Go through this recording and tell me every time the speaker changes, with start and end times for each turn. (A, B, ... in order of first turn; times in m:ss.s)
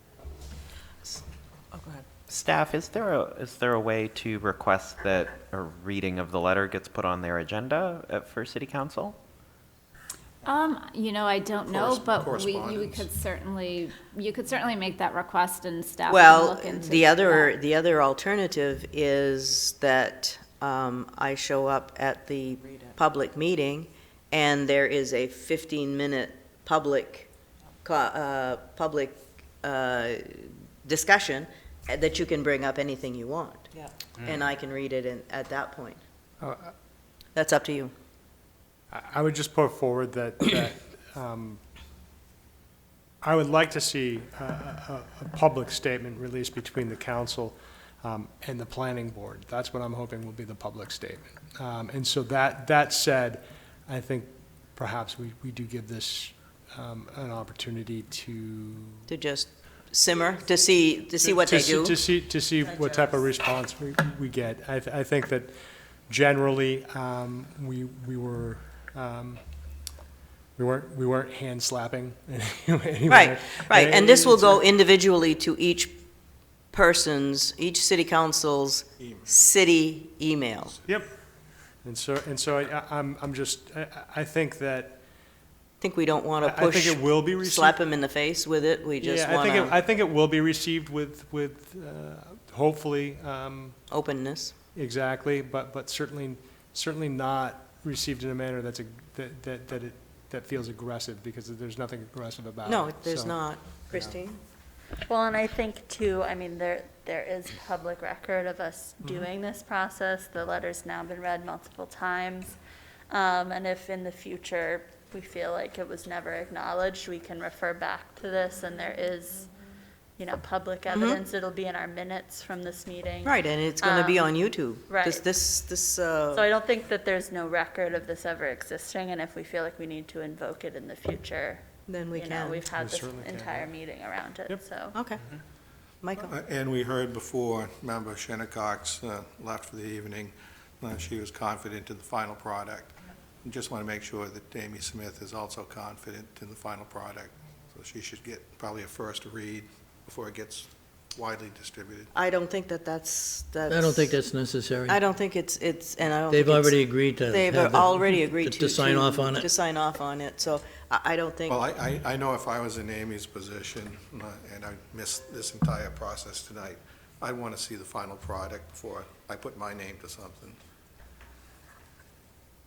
0:02.3-0:09.2 A
0:10.4-0:17.5 B
0:11.7-0:13.1 C
0:16.1-0:27.3 D
0:27.8-0:33.7 D
0:34.2-0:34.4 A
0:34.2-0:36.0 D
0:36.4-0:36.7 E
0:37.3-0:37.9 D
0:38.9-0:41.6 E
0:43.2-0:59.1 E
0:59.1-1:02.0 D
1:01.2-1:05.5 E
1:02.6-1:03.2 F
1:06.1-1:09.4 E
1:10.6-1:14.7 E
1:13.1-1:16.0 D
1:16.7-1:20.8 D
1:19.0-1:19.4 C
1:20.9-1:21.1 E
1:21.8-1:25.0 E
1:25.8-1:29.8 D
1:26.4-1:27.8 E
1:29.0-1:33.8 E
1:33.9-1:34.5 D
1:34.7-1:44.2 E
1:42.6-1:44.4 D
1:45.0-1:52.6 F
1:53.1-1:59.5 F
2:00.2-2:05.2 F
2:00.9-2:01.2 D
2:03.2-2:06.5 D
2:06.3-2:15.0 F
2:11.9-2:12.6 D
2:12.7-2:13.7 E
2:14.9-2:15.2 D
2:16.0-2:16.3 D
2:16.2-2:32.1 C
2:32.1-2:34.1 D
2:33.7-2:35.0 G
2:34.9-2:36.7 D
2:36.3-2:39.5 G
2:37.3-2:41.6 D
2:41.5-2:50.6 C